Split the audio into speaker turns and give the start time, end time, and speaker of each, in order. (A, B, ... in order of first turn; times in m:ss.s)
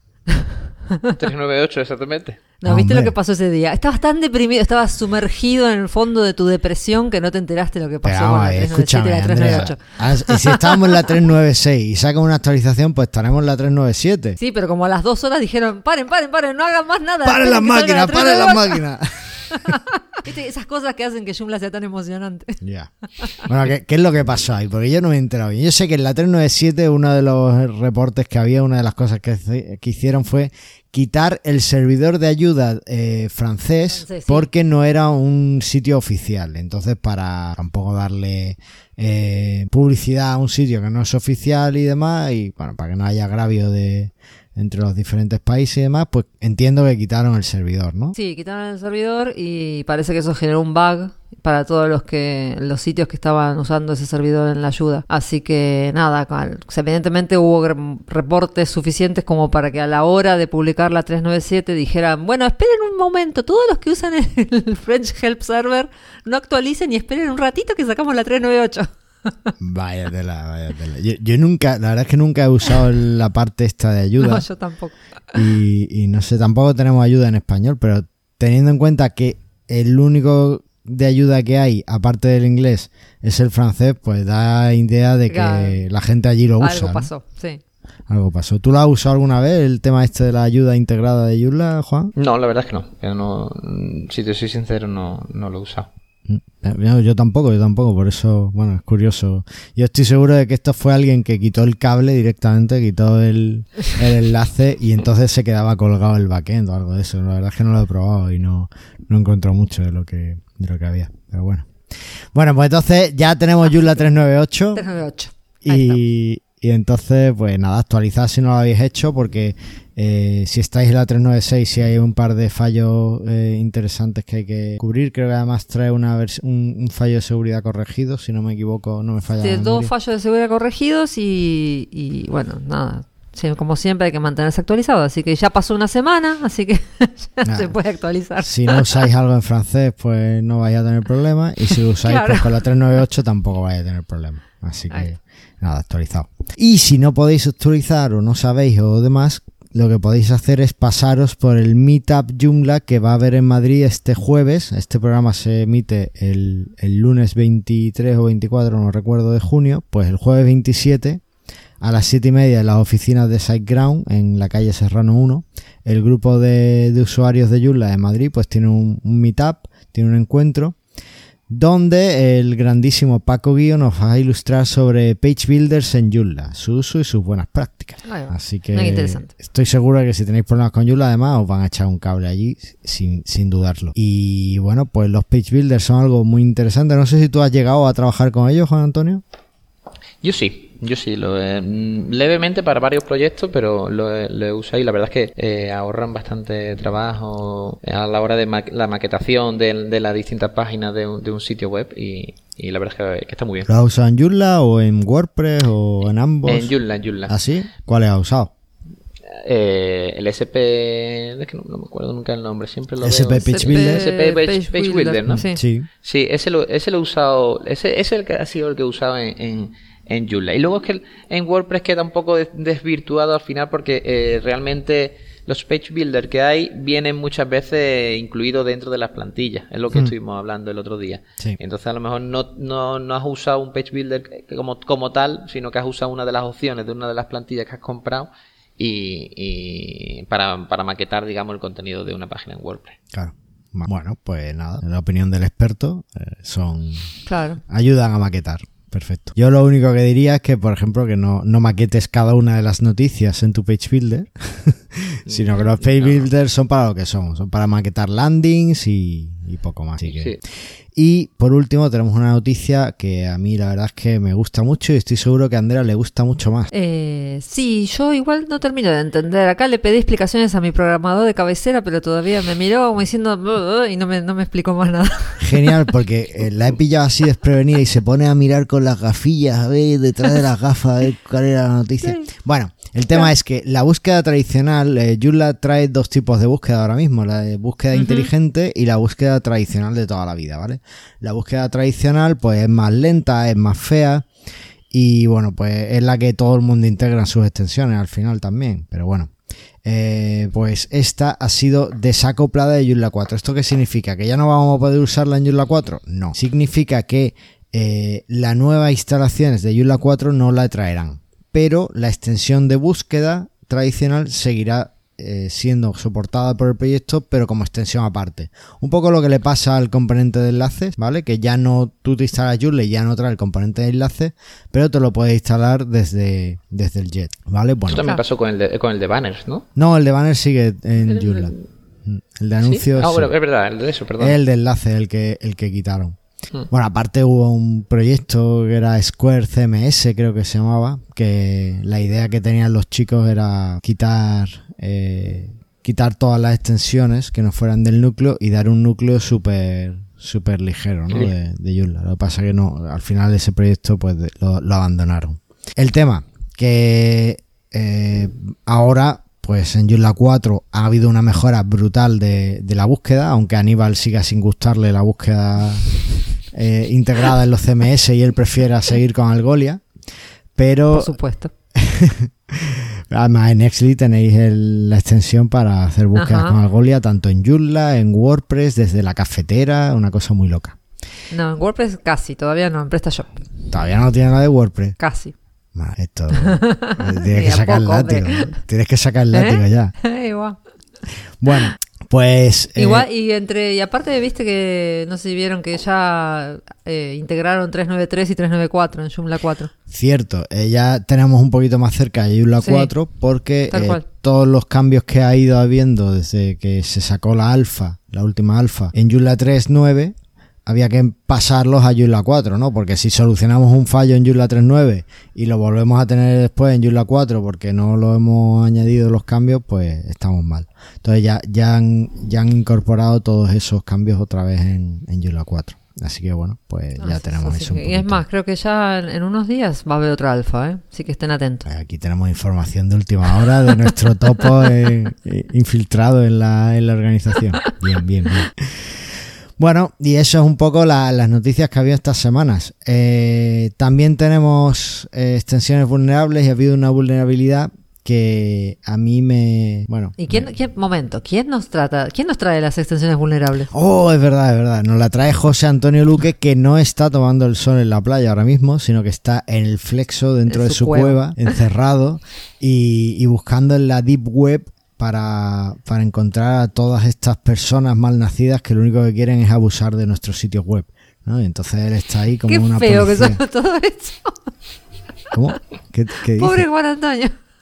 0:00.3-0:01.2 A
0:01.2-0:02.4 B
0:02.6-0:10.8 A
0:02.7-0:03.1 C
0:08.0-0:14.4 C
0:14.4-0:18.8 A
0:17.2-0:19.8 C
0:19.5-0:22.6 A
0:22.6-0:48.2 C
0:33.9-0:34.5 A
0:48.2-1:09.5 A
1:09.6-1:14.4 C
1:14.2-1:15.5 A
1:15.3-1:27.1 C
1:25.3-1:25.8 A
1:26.6-1:27.6 A
1:28.1-1:32.1 C
1:32.2-1:35.9 B
1:36.3-1:54.8 C
1:54.8-1:56.0 A
1:55.6-2:09.9 C
2:09.4-2:19.1 A
2:17.4-2:17.7 C
2:18.4-2:41.2 C
2:22.0-2:22.5 A
2:41.8-2:50.8 C
2:51.5-3:09.2 C
2:58.0-2:59.3 A
3:10.2-3:23.7 B
3:23.7-3:26.8 C
3:26.4-3:27.3 B
3:27.3-3:28.5 C
3:29.3-3:35.5 B
3:33.0-3:34.1 C
3:33.4-3:35.6 A
3:35.3-3:35.9 C
3:36.0-4:03.0 B
4:03.1-4:07.1 C
4:07.3-4:07.6 A
4:07.7-4:26.7 C
4:15.3-4:16.3 B
4:20.1-4:20.4 B
4:26.7-4:35.7 A
4:35.4-4:54.3 C
4:42.0-4:42.3 A
4:47.9-4:48.3 A
4:54.9-4:59.3 C
4:59.8-5:28.1 C
5:27.9-5:28.2 A
5:27.9-5:29.7 B
5:29.8-5:31.5 C
5:31.0-5:31.6 B
5:32.1-5:33.3 C
5:32.6-5:34.4 B
5:34.2-5:36.2 C
5:36.7-6:09.8 C
6:10.6-6:11.1 C
6:10.9-6:11.5 A
6:11.8-6:20.8 C
6:16.2-6:16.6 A
6:21.3-6:23.4 A
6:23.7-6:25.0 C
6:25.0-6:25.3 A
6:25.8-6:30.0 C
6:26.4-6:28.6 A
6:29.3-6:30.6 A
6:31.4-6:33.1 C
6:32.8-6:39.7 A
6:39.9-6:50.2 C
6:42.6-6:42.9 A
6:43.7-6:44.0 A
6:50.7-7:08.2 C
7:07.0-7:11.7 A
7:11.7-7:30.5 C
7:30.2-7:33.7 A
7:33.7-7:53.4 C
7:40.5-7:41.5 A
7:52.5-7:54.5 A
7:55.3-7:56.6 C
7:56.3-7:57.4 A